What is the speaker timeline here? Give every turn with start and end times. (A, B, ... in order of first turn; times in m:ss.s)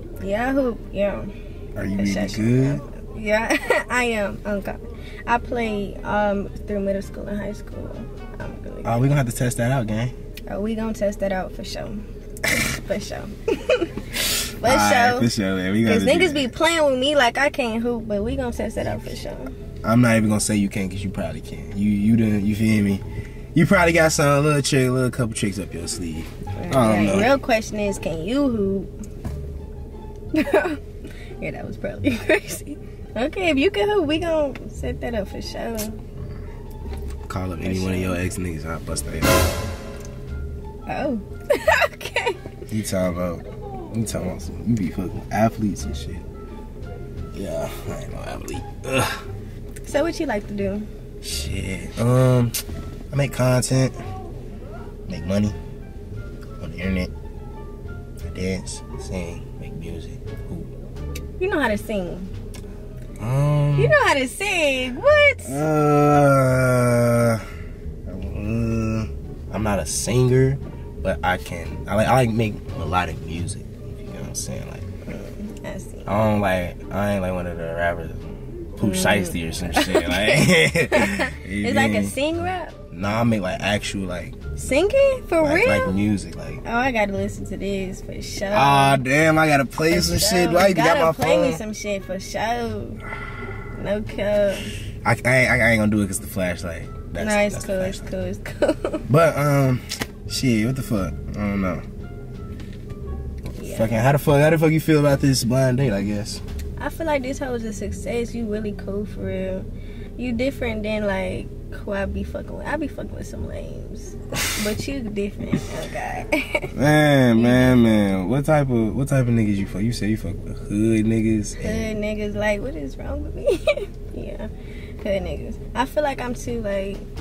0:00.2-0:01.3 A
0:01.8-0:02.8 B
0:02.0-0:09.0 A
0:08.8-0:10.1 B
0:10.5-0:15.3 A
0:14.6-0:16.5 B
0:15.8-0:19.5 A
0:19.8-0:27.4 B
0:26.6-0:28.9 A
0:30.3-0:30.8 A
0:31.4-0:36.0 A
0:37.3-0:39.6 B
0:37.6-0:38.2 A
0:40.9-0:42.4 A
0:42.7-0:46.2 B
0:47.3-0:49.2 B
0:49.9-0:50.9 A
0:51.2-0:52.6 B
0:53.1-0:54.0 B
0:55.1-0:55.6 B
0:56.6-0:57.1 B
0:58.2-1:00.7 B
1:01.4-1:02.3 A
1:03.2-1:04.0 B
1:03.8-1:05.6 A
1:05.5-1:07.5 B
1:08.1-1:14.9 B
1:15.0-1:16.1 A
1:16.1-1:18.2 B
1:18.8-1:22.1 B
1:18.8-1:22.8 A
1:22.9-1:24.4 B
1:24.6-1:26.0 A
1:25.4-1:26.6 B
1:26.6-1:29.0 A
1:28.5-1:31.6 B
1:29.9-1:33.0 A
1:33.7-1:34.7 A
1:35.0-1:38.1 B
1:37.2-1:39.1 A
1:39.1-1:41.8 B
1:43.6-1:46.4 B
1:43.6-1:44.0 A
1:46.8-1:56.7 A
1:56.7-2:01.9 B
1:57.4-1:57.7 A
2:01.6-2:04.5 A
2:05.0-2:07.0 A